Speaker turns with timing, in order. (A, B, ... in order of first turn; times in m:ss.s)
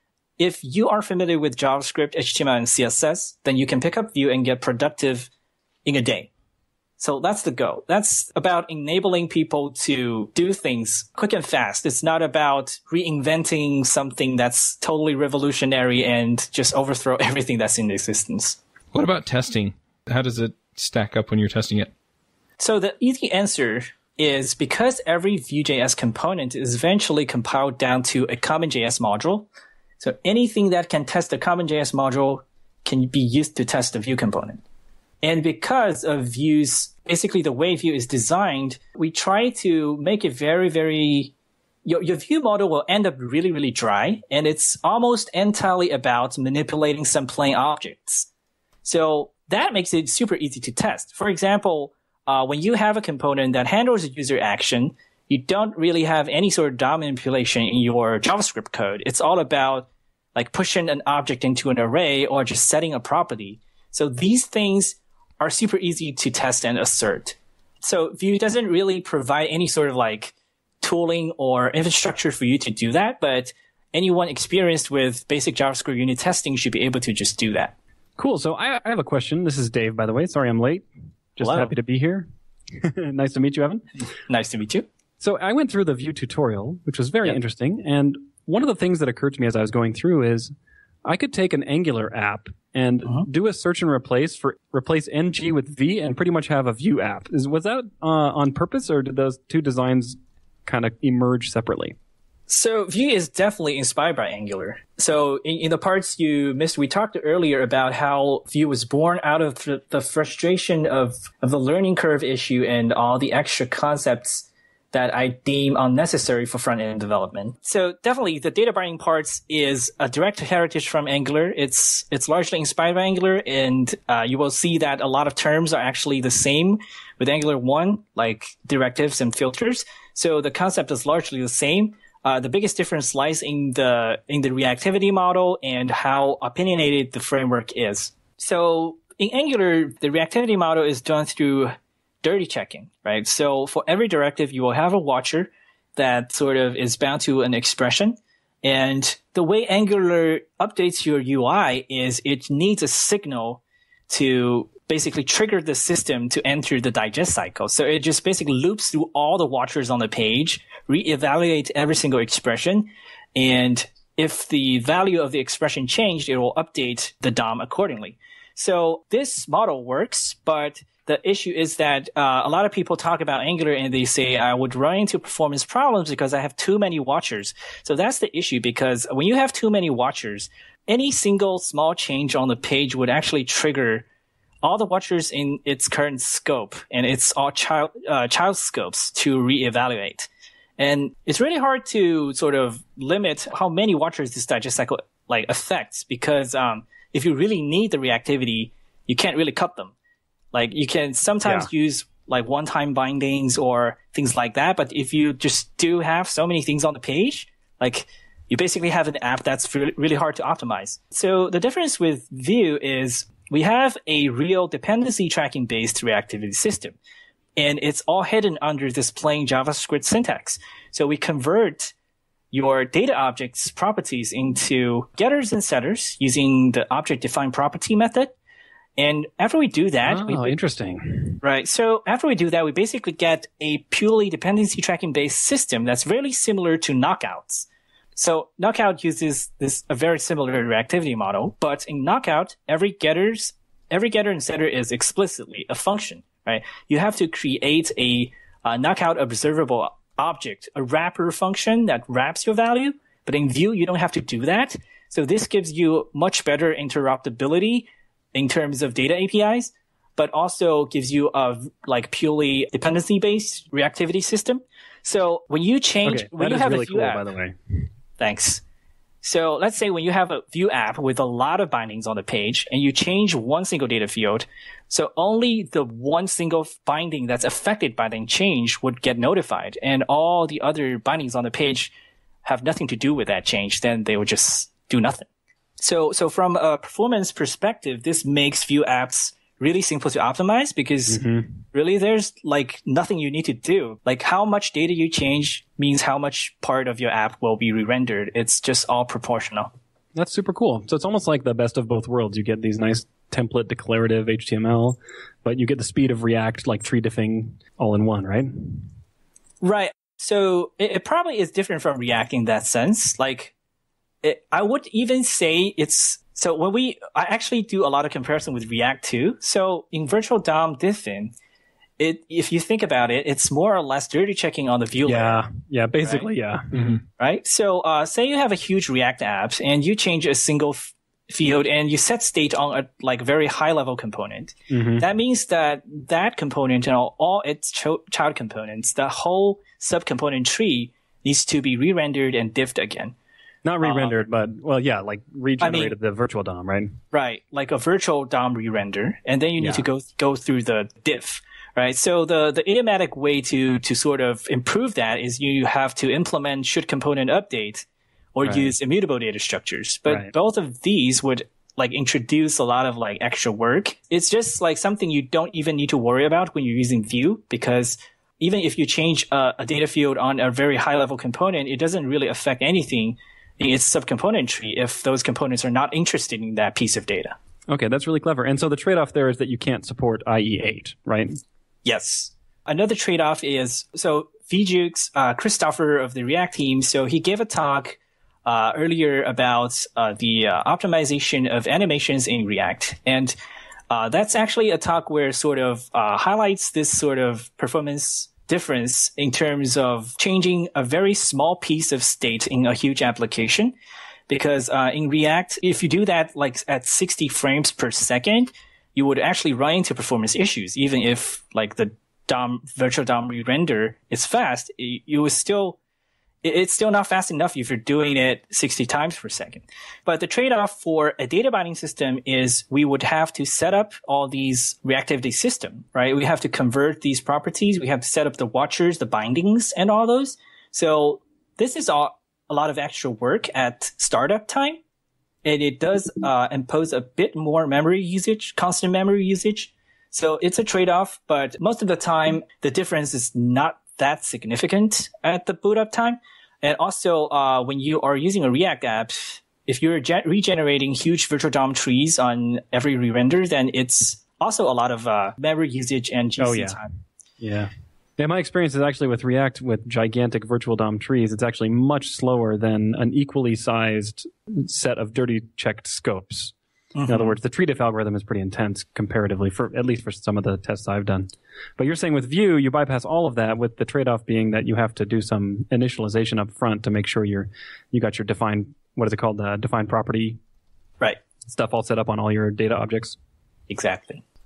0:00.4-0:05.3 A
0:05.8-0:06.3 A
0:07.0-0:18.6 A
0:18.9-0:21.9 B
0:22.6-0:29.5 A
0:30.0-0:34.6 A
0:35.2-0:41.3 A
0:41.8-0:48.3 A
0:48.8-1:17.8 A
1:18.2-1:23.8 C
1:21.4-1:21.7 A
1:24.3-1:24.8 A
1:25.2-1:30.5 C
1:31.0-1:42.0 C
1:42.5-3:04.0 A
3:04.6-3:19.9 A
3:20.5-3:37.0 A
3:37.6-3:41.9 A
3:42.5-3:48.3 A
3:49.0-3:50.5 A
3:50.1-3:51.4 C
3:51.4-4:27.3 A
4:26.0-4:27.9 C
4:28.2-4:28.6 A
4:29.2-4:41.9 A
4:42.4-4:45.3 A
4:45.8-4:51.2 A
4:51.1-4:51.6 C
4:51.7-4:59.7 A
5:00.1-5:08.9 C
5:09.6-5:13.5 A
5:14.2-5:21.3 A
5:22.0-5:25.4 A
5:25.0-5:27.0 C
5:26.0-5:43.1 A
5:34.7-5:35.0 C
5:43.6-5:47.0 C
5:43.8-5:44.2 A
5:45.6-5:45.9 A
5:47.1-6:17.4 A
5:49.6-5:49.8 C
5:58.4-5:58.7 C
6:17.7-6:21.4 C
6:21.8-6:33.3 A
6:33.9-6:43.7 A
6:44.3-6:55.8 A
6:56.4-7:14.8 A
7:15.4-7:36.9 A
7:36.4-7:36.8 C
7:37.4-7:46.5 C
7:46.9-7:47.4 A
7:47.1-8:00.4 C
8:01.4-8:03.2 C
8:03.7-8:04.2 A